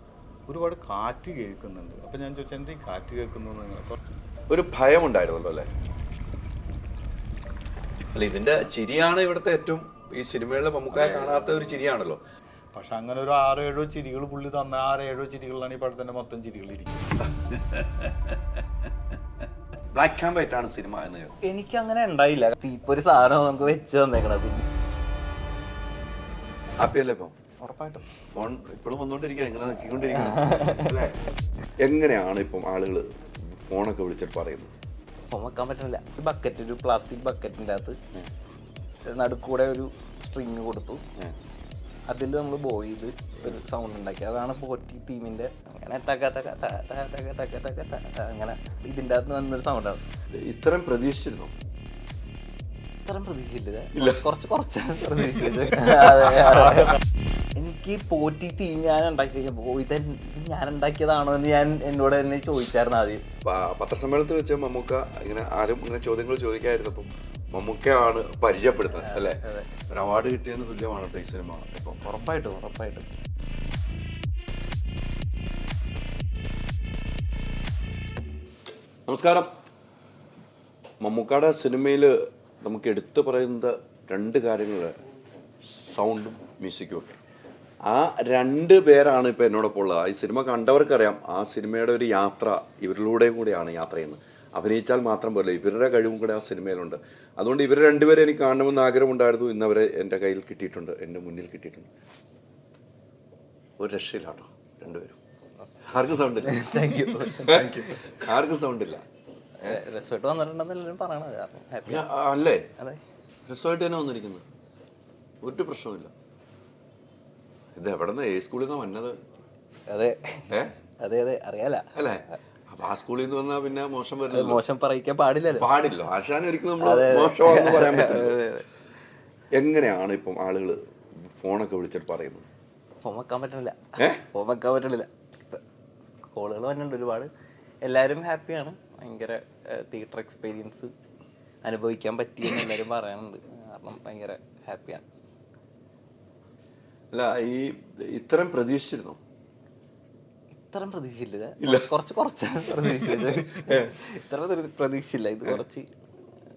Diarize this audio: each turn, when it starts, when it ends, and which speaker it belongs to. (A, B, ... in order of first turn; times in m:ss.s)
0:00.5-0:04.0 A
0:04.5-0:05.7 B
0:08.1-0:12.2 B
0:12.7-0:17.1 A
0:17.4-0:17.7 B
0:19.9-0:21.4 B
0:21.4-0:24.6 C
0:26.8-0:27.3 B
0:27.6-0:28.1 C
0:28.3-0:31.1 B
0:30.2-0:30.9 C
0:31.8-0:34.7 B
0:35.3-0:38.0 C
0:39.0-0:41.0 C
0:42.1-0:50.0 C
0:50.3-0:51.5 B
0:53.0-0:57.0 C
0:53.9-0:54.2 B
0:57.6-1:03.2 C
1:03.4-1:12.0 B
1:09.0-1:09.7 C
1:12.0-1:13.1 C
1:19.1-1:19.5 B
1:21.0-1:24.9 B
1:25.6-1:27.2 B
1:27.8-1:41.9 B
1:43.8-1:45.2 B
1:45.8-1:49.0 B
1:46.4-1:48.2 C
1:49.6-1:52.0 C
1:51.9-1:52.7 B
1:53.5-1:54.4 B
1:55.4-1:56.1 B
1:57.8-1:59.2 B
1:59.9-2:02.4 C
2:01.9-2:04.6 B
2:04.3-2:05.7 C
2:05.6-2:08.4 B
2:06.8-2:08.6 C
2:09.5-2:12.4 B
2:13.0-2:15.6 C
2:14.0-2:14.2 B
2:16.3-2:17.3 C
2:17.8-2:20.9 C
2:21.6-2:25.0 C
2:27.1-2:29.2 B
2:30.6-2:35.9 C
2:31.6-2:31.9 B
2:32.8-2:33.9 B